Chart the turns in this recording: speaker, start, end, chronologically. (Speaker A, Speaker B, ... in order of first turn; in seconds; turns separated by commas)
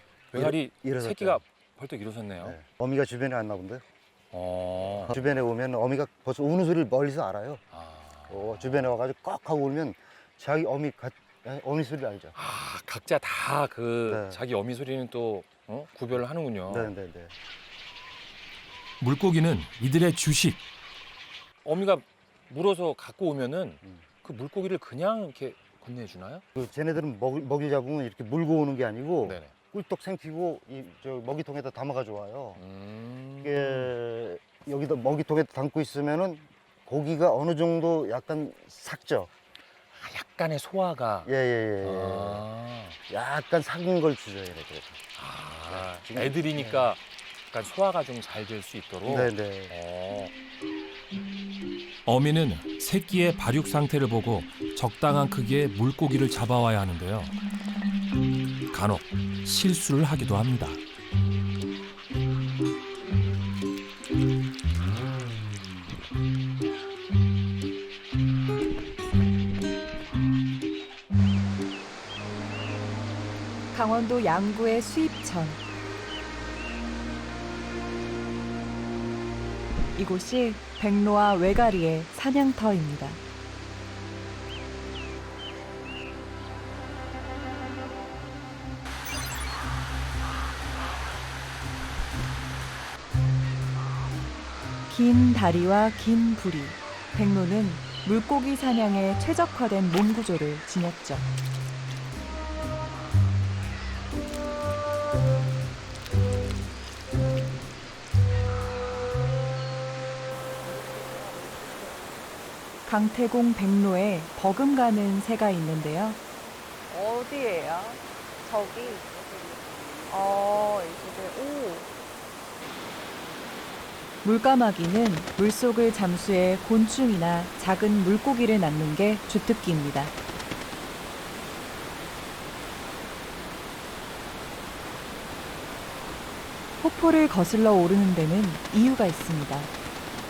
Speaker A: 0.3-2.6, Speaker B: 0.3-1.4, Speaker B: 2.4-3.8, Speaker A: 4.3-5.2, Speaker B: 5.0-7.6, Speaker A: 7.7-8.9, Speaker B: 8.3-12.3, Speaker A: 12.3-16.9, Speaker B: 14.1-14.4, Speaker B: 16.7-17.3, Speaker C: 19.0-20.6, Speaker A: 21.6-26.4, Speaker B: 26.5-32.6, Speaker A: 29.2-29.5, Speaker A: 32.6-33.9, Speaker B: 33.4-39.3, Speaker A: 39.9-41.3, Speaker B: 41.2-42.5, Speaker A: 41.8-43.0, Speaker B: 43.1-44.9, Speaker A: 45.1-47.0, Speaker B: 45.7-46.9, Speaker A: 47.5-50.3, Speaker B: 49.0-49.8, Speaker C: 52.0-57.4, Speaker C: 58.7-60.8, Speaker D: 73.7-75.6, Speaker D: 79.9-83.2, Speaker D: 94.9-101.3, Speaker D: 112.8-116.2, Speaker E: 116.9-119.5, Speaker E: 120.1-121.9, Speaker D: 124.2-130.1, Speaker D: 136.8-139.7